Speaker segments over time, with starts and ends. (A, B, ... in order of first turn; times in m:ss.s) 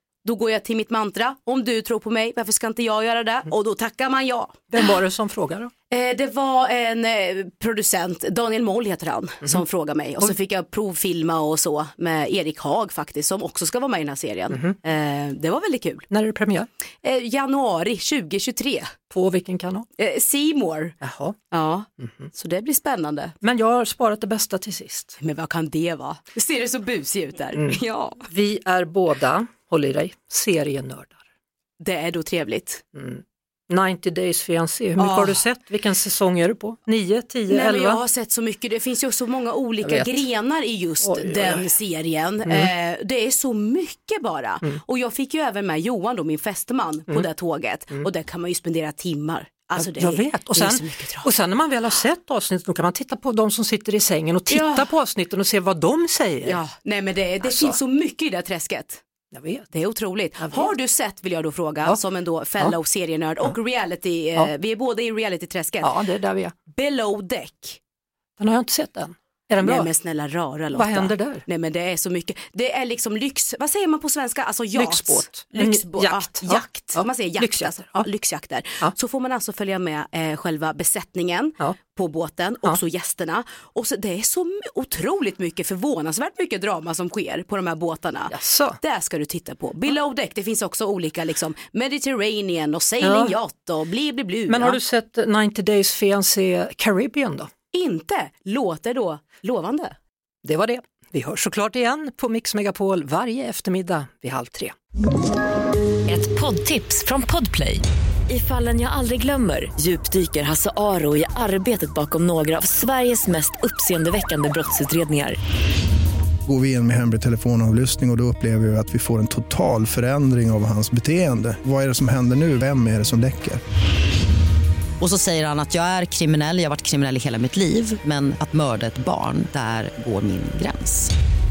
0:00.2-0:04.6 A
0:04.7-0:05.7 B
0:05.9-0:16.1 A
0:16.1-0:16.7 B
0:17.0-0:18.9 A
0:19.1-0:19.9 B
0:20.0-0:20.9 A
0:21.0-0:21.4 B
0:21.5-0:23.3 A
0:22.0-0:22.3 B
0:23.4-0:25.2 B
0:25.2-0:28.2 A
0:27.6-0:31.2 B
0:31.8-0:32.8 A
0:33.0-0:38.0 B
0:35.0-0:35.4 A
0:37.5-0:51.3 A
0:39.8-0:40.2 B
0:41.0-0:41.7 B
0:49.8-0:56.6 B
0:54.5-0:54.9 A
0:56.4-0:59.0 A
0:57.4-0:57.8 B
0:59.3-0:59.7 B
0:59.7-1:05.9 A
1:00.4-1:00.7 B
1:05.8-1:06.6 B
1:06.7-1:07.8 A
1:08.4-1:09.9 B
1:09.6-1:34.8 A
1:10.7-1:11.4 B
1:14.8-1:18.0 B
1:28.3-1:28.8 B
1:33.0-1:33.4 B
1:34.5-1:37.5 B
1:37.7-1:39.9 A
1:40.4-1:44.7 B
1:46.1-1:55.4 C
1:56.5-2:03.6 D
2:05.0-2:11.1 E